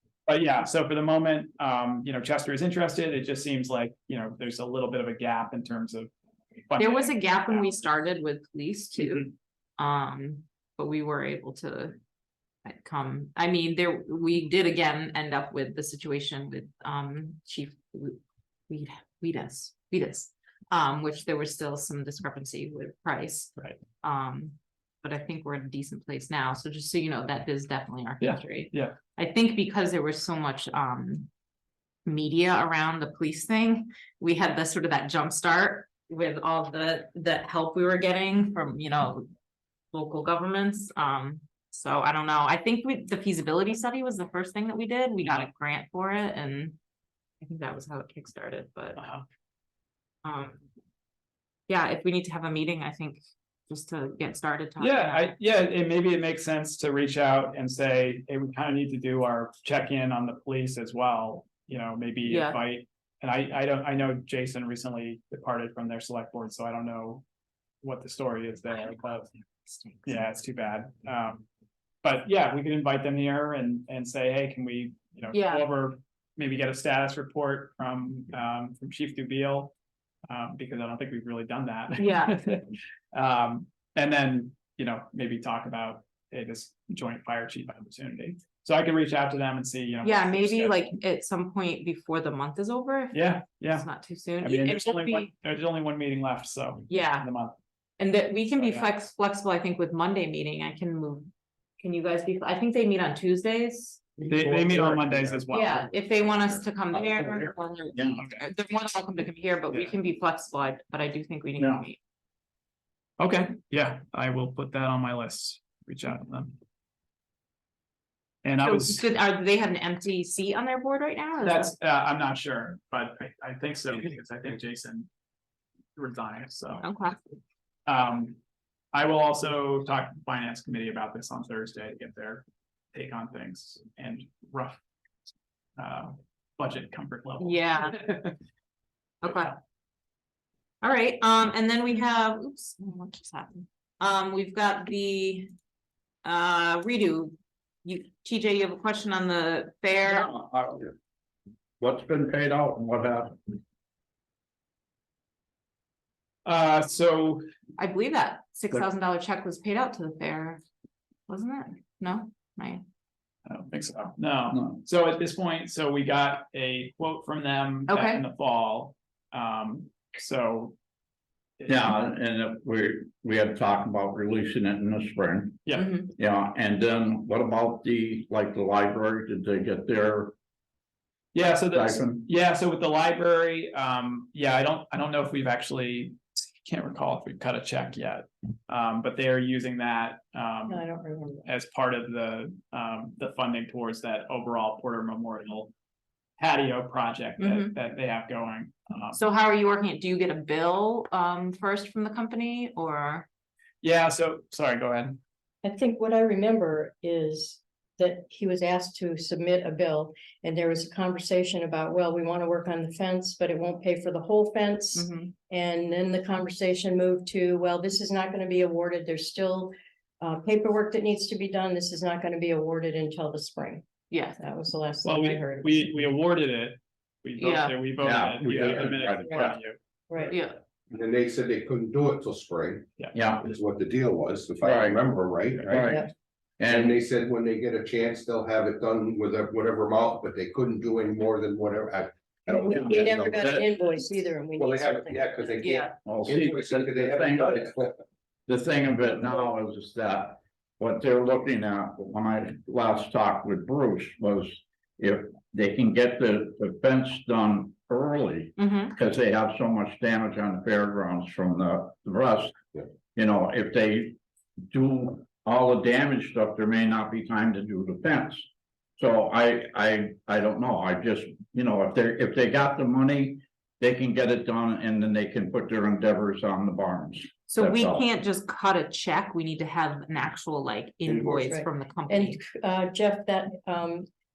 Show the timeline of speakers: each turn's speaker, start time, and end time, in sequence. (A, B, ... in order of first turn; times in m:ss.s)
0:00.3-0:06.1 A
0:06.7-0:07.8 A
0:06.8-0:12.0 B
0:12.6-0:31.3 B
0:28.2-0:29.0 A
0:32.1-0:39.3 B
0:39.9-0:46.8 B
0:47.4-0:49.0 B
0:49.0-0:49.2 A
0:50.2-0:50.6 B
0:51.7-0:55.3 B
0:54.8-1:07.2 A
1:02.3-1:02.6 B
1:07.8-1:09.3 A
1:09.7-1:10.2 B
1:10.0-1:11.5 A
1:12.0-1:19.7 A
1:15.3-1:15.7 B
1:20.3-1:30.8 A
1:22.0-1:22.4 B
1:30.0-1:35.3 B
1:33.1-1:33.9 A
1:34.4-1:37.6 A
1:36.9-1:37.3 B
1:38.0-1:44.2 B
1:38.6-1:38.9 A
1:44.3-1:46.8 A
1:44.3-1:45.1 C
1:44.6-1:45.3 D
1:45.5-1:52.0 B
1:47.9-1:48.2 C
1:51.6-1:51.8 C
1:53.2-1:56.6 A
1:58.4-1:59.1 A
1:58.6-2:01.7 B
2:01.4-2:05.1 A
2:06.0-2:06.9 A
2:06.8-2:07.3 B
2:07.9-2:08.4 A
2:08.9-2:14.8 A
2:15.8-2:18.3 A
2:17.4-2:18.1 B
2:19.2-2:19.6 B
2:19.2-2:19.5 A
2:20.8-2:25.5 B
2:26.2-2:27.3 B
2:27.8-2:30.3 B
2:30.0-2:30.9 C
2:31.8-2:33.6 C
2:36.4-2:37.4 A
2:37.8-2:40.6 B
2:41.3-2:42.8 B
2:43.5-2:50.8 A
2:44.5-2:44.8 C
2:47.9-2:48.2 B
2:51.7-3:00.3 C
2:55.8-2:56.1 B
3:01.3-3:10.9 A
3:01.7-3:02.2 C
3:10.7-3:11.5 E
3:11.4-3:15.7 A
3:16.4-3:19.2 A
3:17.4-3:17.7 B
3:19.1-3:23.3 B
3:23.8-3:25.2 A
3:25.6-3:43.8 E
3:35.0-3:35.3 B
3:44.1-3:44.4 B
3:44.4-3:45.9 E
3:45.0-3:49.8 A
3:47.4-3:47.8 B
3:48.0-3:49.6 C
3:48.4-3:49.1 D
3:50.1-3:50.4 E
3:50.3-3:50.6 B
3:50.9-3:52.8 D
3:53.1-3:53.4 C
3:53.4-3:56.0 D
3:54.6-3:55.0 C
3:55.5-3:55.8 A
3:55.6-3:56.0 C
3:56.6-3:57.0 C
3:56.6-4:03.7 D
4:02.5-4:05.8 E
4:02.7-4:03.6 C
4:04.6-4:07.9 D
4:05.6-4:05.9 B
4:06.1-4:07.7 C
4:08.5-4:22.6 C
4:18.6-4:18.9 B
4:23.1-4:24.2 C
4:24.7-4:28.5 C
4:29.0-4:38.1 C
4:37.5-4:42.4 B
4:41.2-4:44.1 E